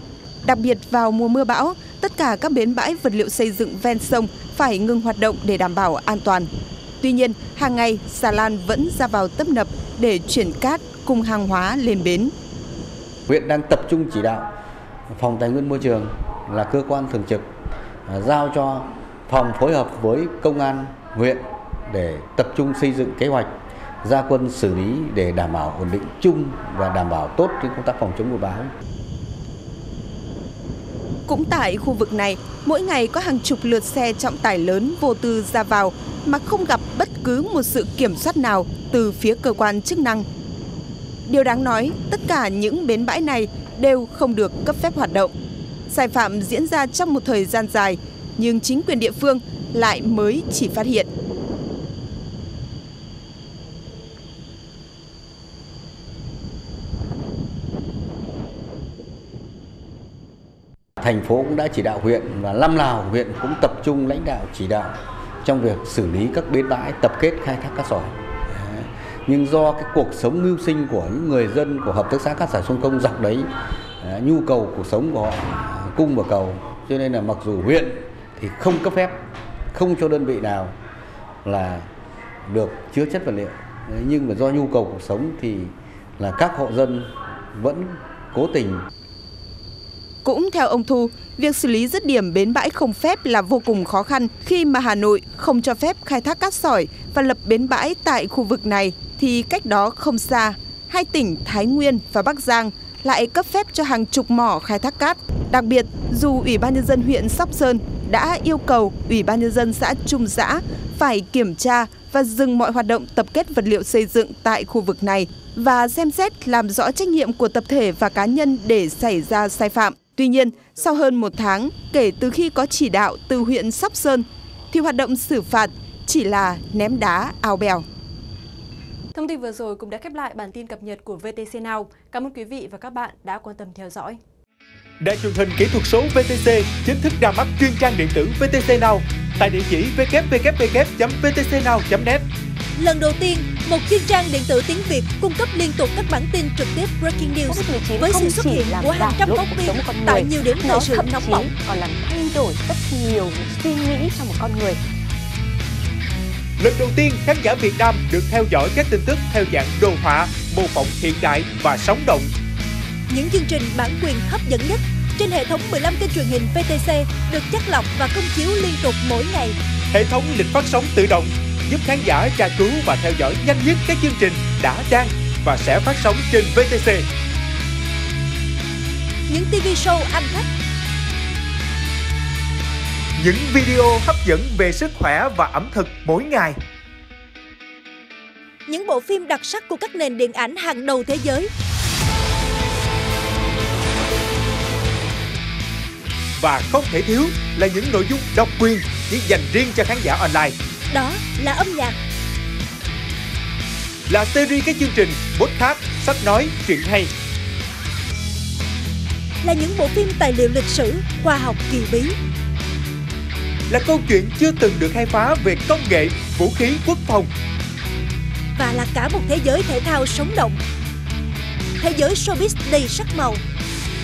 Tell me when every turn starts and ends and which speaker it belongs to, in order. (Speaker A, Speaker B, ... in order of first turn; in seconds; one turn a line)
Speaker A: 0.4-6.5
Speaker A: 7.0-12.3
Speaker B: 13.3-14.5
Speaker B: 15.1-17.4
Speaker B: 18.1-28.7
Speaker A: 31.3-40.2
Speaker A: 41.3-45.3
Speaker A: 45.9-51.1
Speaker B: 61.0-64.9
Speaker B: 65.4-73.5
Speaker B: 74.0-79.2
Speaker B: 79.7-80.7
Speaker B: 81.4-81.9
Speaker B: 82.5-88.9
Speaker A: 90.2-127.8
Speaker C: 129.1-134.2
Speaker D: 135.0-142.2
Speaker E: 142.8-151.5
Speaker F: 147.5-154.8
Speaker D: 156.6-162.3
Speaker E: 163.1-169.6
Speaker D: 169.9-177.0
Speaker E: 179.3-180.5
Speaker D: 183.2-186.6
Speaker E: 188.7-191.5
Speaker D: 196.4-200.6
Speaker E: 200.9-202.0
Speaker D: 204.1-207.1
Speaker E: 209.4-212.2
Speaker D: 213.7-217.3
Speaker E: 218.6-220.6
Speaker E: 221.8-223.4